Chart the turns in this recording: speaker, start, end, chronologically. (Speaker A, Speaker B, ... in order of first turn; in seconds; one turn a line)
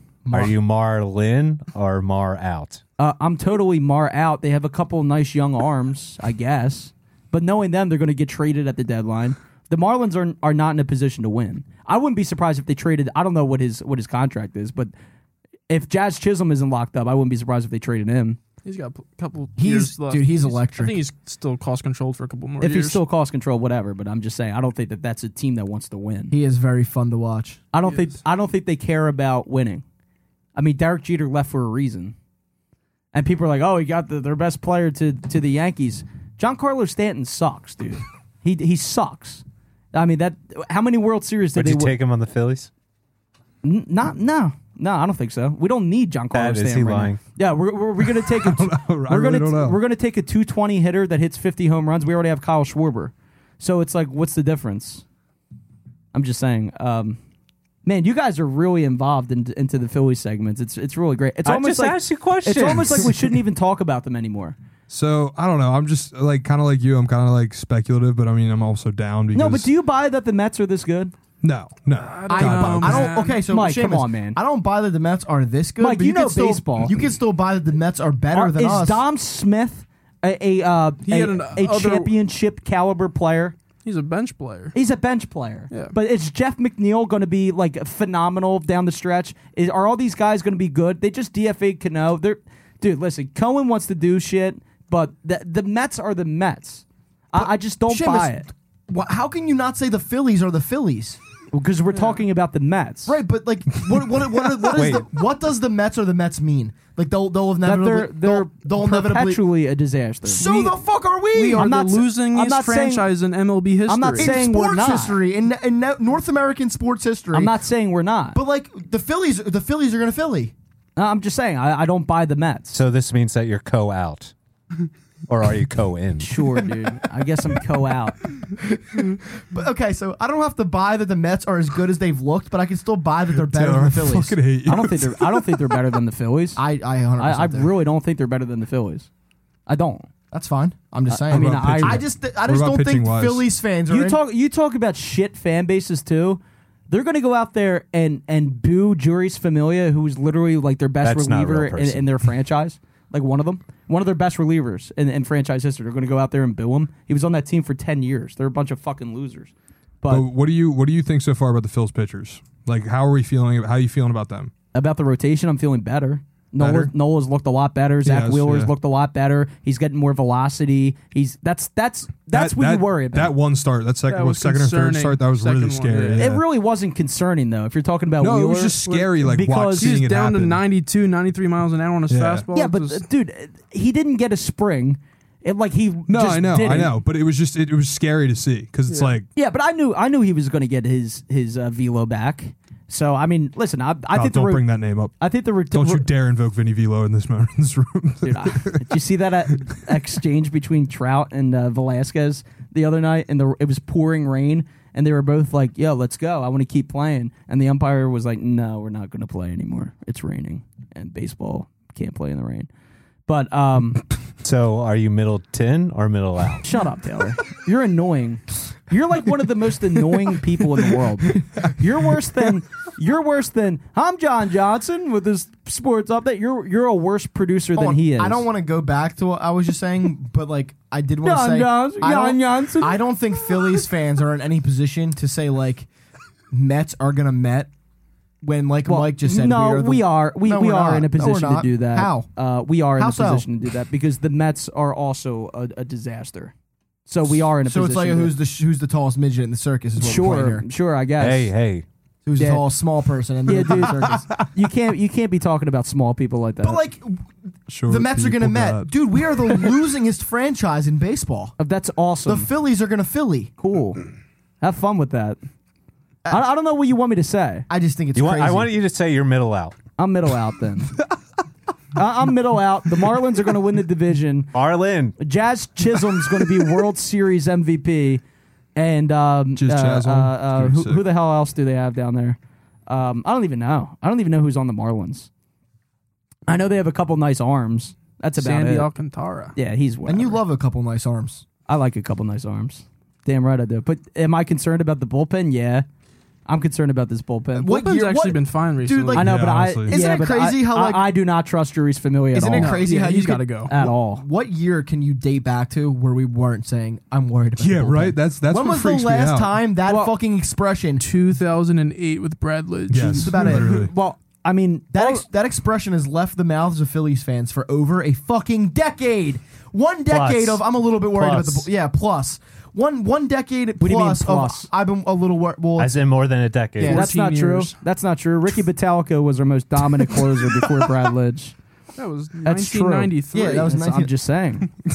Speaker A: 0.2-0.5
Speaker B: 0.3-2.8
Speaker C: 3.0-14.9
Speaker C: 15.7-18.4
Speaker D: 18.6-23.0
Speaker A: 19.6-21.0
Speaker C: 22.6-26.3
Speaker A: 26.3-27.6
Speaker C: 27.7-29.8
Speaker D: 27.9-28.2
Speaker C: 30.6-32.1
Speaker C: 33.1-41.9
Speaker B: 41.6-42.7
Speaker C: 43.6-55.0
Speaker B: 46.3-47.2
Speaker E: 48.0-49.8
Speaker C: 56.1-57.2
Speaker C: 57.9-64.6
Speaker B: 61.5-63.4
Speaker E: 64.9-69.7
Speaker C: 69.3-71.1
Speaker E: 71.4-73.1
Speaker D: 72.0-73.4
Speaker A: 72.3-79.0
Speaker C: 73.3-74.4
Speaker C: 75.8-77.0
Speaker C: 78.3-83.6
Speaker D: 81.1-82.1
Speaker D: 83.8-84.8
Speaker C: 84.7-98.5
Speaker A: 97.3-101.2
Speaker C: 101.5-103.2
Speaker A: 103.1-109.4
Speaker B: 104.7-105.1
Speaker C: 107.6-110.7
Speaker A: 110.2-111.7
Speaker D: 111.3-114.4
Speaker C: 111.6-113.1
Speaker C: 113.9-115.2
Speaker A: 114.2-117.5
Speaker C: 117.3-118.4
Speaker A: 118.3-120.5
Speaker C: 121.0-122.8
Speaker B: 122.7-124.3
Speaker B: 125.3-126.4
Speaker C: 126.2-128.2
Speaker A: 128.6-134.4
Speaker E: 133.3-135.8
Speaker C: 134.6-136.6
Speaker A: 136.6-137.7
Speaker C: 137.2-139.1
Speaker C: 139.7-140.1
Speaker A: 140.3-144.2
Speaker C: 141.1-142.0
Speaker E: 141.3-143.4
Speaker C: 143.9-160.3
Speaker B: 151.0-152.0
Speaker E: 160.1-164.5
Speaker C: 164.7-173.3
Speaker E: 166.6-166.9
Speaker E: 168.0-168.7
Speaker E: 172.3-176.4
Speaker D: 174.1-176.3
Speaker C: 176.2-180.0
Speaker E: 178.2-180.6
Speaker D: 178.8-179.2
Speaker D: 179.8-183.0
Speaker E: 182.1-182.5
Speaker C: 182.5-186.9
Speaker E: 186.1-189.3
Speaker D: 188.9-189.2
Speaker C: 189.3-194.6
Speaker E: 194.1-195.2
Speaker C: 195.2-196.1
Speaker E: 195.7-198.9
Speaker C: 198.2-212.7
Speaker C: 213.3-214.0
Speaker B: 214.4-216.7
Speaker C: 216.6-228.4
Speaker A: 227.8-235.9
Speaker C: 231.2-233.0
Speaker A: 236.5-237.7
Speaker A: 238.4-242.3
Speaker C: 238.9-246.5
Speaker A: 243.0-243.5
Speaker C: 247.1-248.3
Speaker A: 247.2-250.6
Speaker C: 250.0-251.5
Speaker B: 251.2-251.8
Speaker A: 252.3-254.3
Speaker C: 252.4-252.6
Speaker C: 253.5-256.8
Speaker A: 256.6-257.2
Speaker E: 257.7-259.7
Speaker A: 257.9-261.5
Speaker C: 261.6-262.5
Speaker A: 262.3-263.5
Speaker C: 263.6-264.0
Speaker C: 264.6-265.4
Speaker C: 266.3-267.7
Speaker A: 267.7-268.7
Speaker B: 268.1-269.8
Speaker C: 270.0-270.9
Speaker C: 271.9-274.5
Speaker B: 274.5-275.2
Speaker C: 275.2-278.2
Speaker C: 278.8-285.3
Speaker E: 279.6-281.0
Speaker C: 286.5-288.9
Speaker D: 288.4-289.6
Speaker C: 289.6-290.4
Speaker A: 290.1-291.4
Speaker C: 291.7-295.9
Speaker C: 296.5-297.7
Speaker A: 297.6-299.3
Speaker D: 297.7-299.3
Speaker C: 299.1-302.9
Speaker E: 299.2-300.0
Speaker A: 299.9-301.1
Speaker A: 302.3-311.0
Speaker D: 302.5-303.7
Speaker C: 303.7-304.2
Speaker E: 307.6-309.6
Speaker C: 309.9-310.1
Speaker D: 311.0-313.4
Speaker E: 312.9-313.9
Speaker A: 313.1-313.9
Speaker C: 313.5-315.2
Speaker A: 314.9-326.0
Speaker B: 320.1-321.7
Speaker C: 323.8-324.7
Speaker B: 325.8-327.1
Speaker A: 326.8-327.1
Speaker C: 326.8-331.6
Speaker D: 326.9-327.7
Speaker D: 332.0-333.8
Speaker C: 332.4-334.7
Speaker A: 333.3-334.1